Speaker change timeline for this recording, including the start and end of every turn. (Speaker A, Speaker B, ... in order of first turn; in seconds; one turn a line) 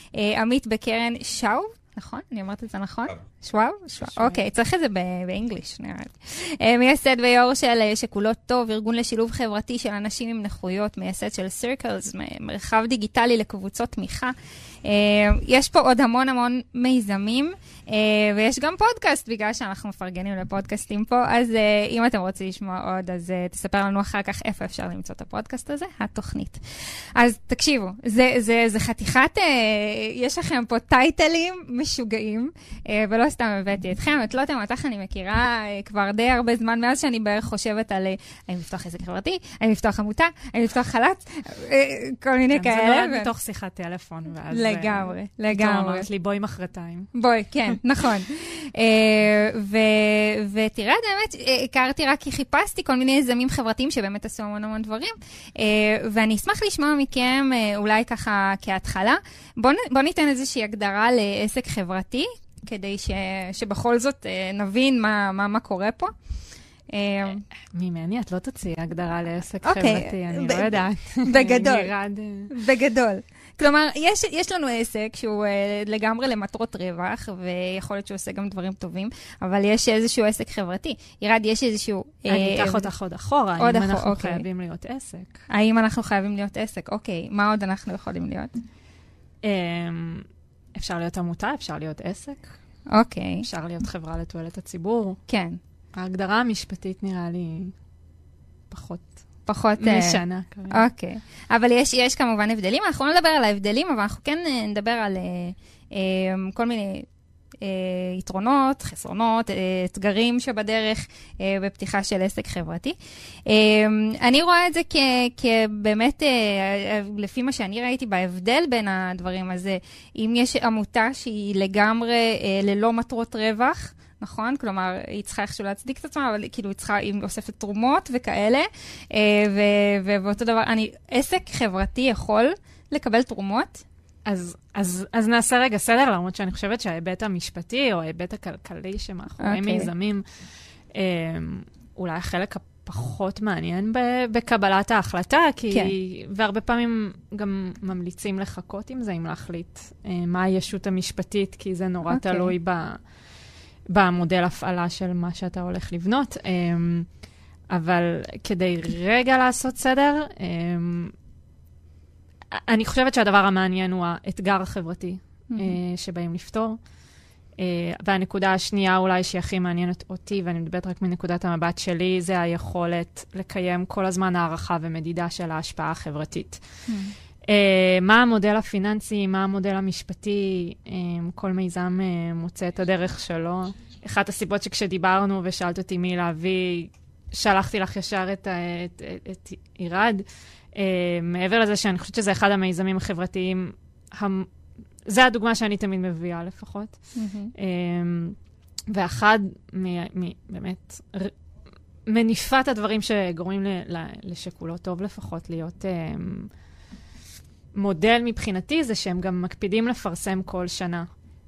Speaker A: 0.1-26.6
Speaker B: 4.0-4.4
Speaker A: 27.1-43.3
Speaker B: 42.5-47.1
Speaker A: 44.5-46.1
Speaker A: 47.1-66.1
Speaker A: 66.9-67.4
Speaker B: 67.7-72.5
Speaker A: 69.6-71.9
Speaker A: 72.5-82.9
Speaker B: 82.3-85.4
Speaker A: 83.6-84.4
Speaker A: 85.5-88.5
Speaker B: 89.4-92.5
Speaker A: 92.9-93.5
Speaker B: 93.4-95.2
Speaker A: 95.3-95.6
Speaker B: 96.0-97.7
Speaker B: 98.7-99.2
Speaker A: 99.5-107.1
Speaker B: 99.8-100.8
Speaker A: 107.6-113.0
Speaker A: 113.5-133.8
Speaker B: 134.2-140.2
Speaker A: 139.4-139.9
Speaker B: 140.9-153.0
Speaker A: 152.1-152.5
Speaker B: 153.9-157.1
Speaker B: 157.7-161.1
Speaker B: 162.5-166.8
Speaker A: 165.5-165.8
Speaker B: 167.6-176.6
Speaker A: 176.9-177.1
Speaker B: 177.4-194.5
Speaker B: 195.1-197.1
Speaker A: 197.1-197.5
Speaker B: 197.6-198.4
Speaker B: 198.9-201.3
Speaker B: 202.1-206.5
Speaker B: 207.7-211.1